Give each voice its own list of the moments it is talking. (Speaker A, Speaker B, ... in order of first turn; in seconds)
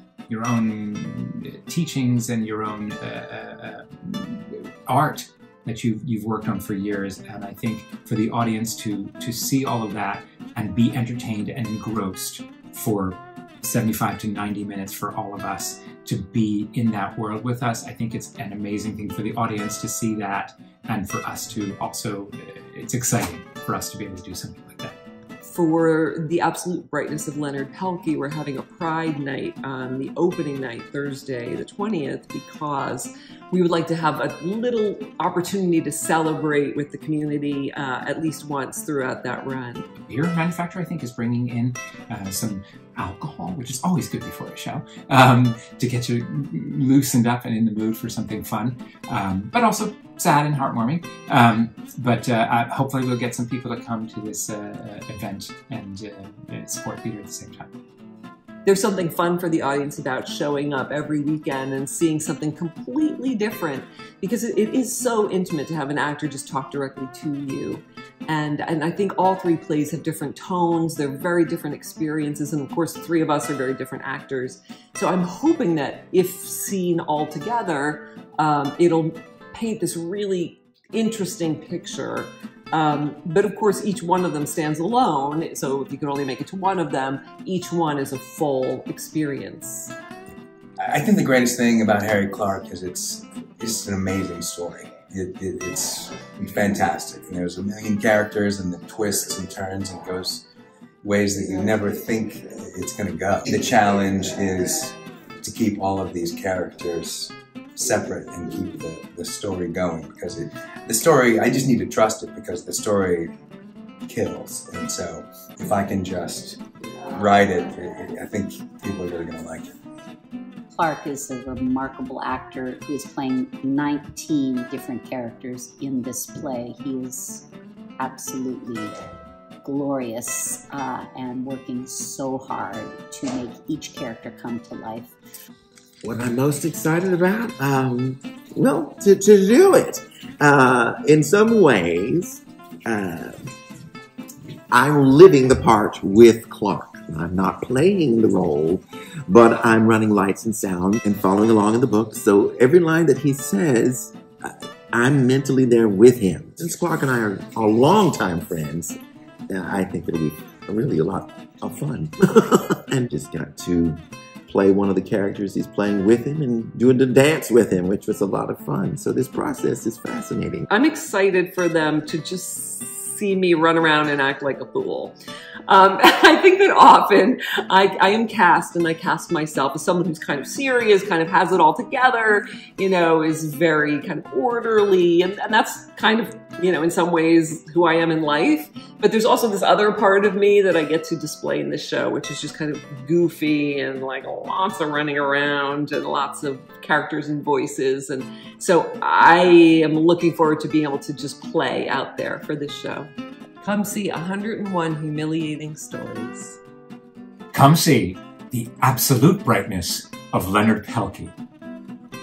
Speaker A: 0.3-24.9, 40.0-57.7, 207.5-211.3
Speaker B: 25.4-39.9, 58.6-89.9, 170.7-175.1, 175.7-206.6
Speaker C: 90.8-100.5, 101.0-113.3, 114.0-119.7
Speaker D: 120.7-128.9, 129.6-135.1
Speaker E: 136.0-143.3, 144.7-159.0, 159.5-170.7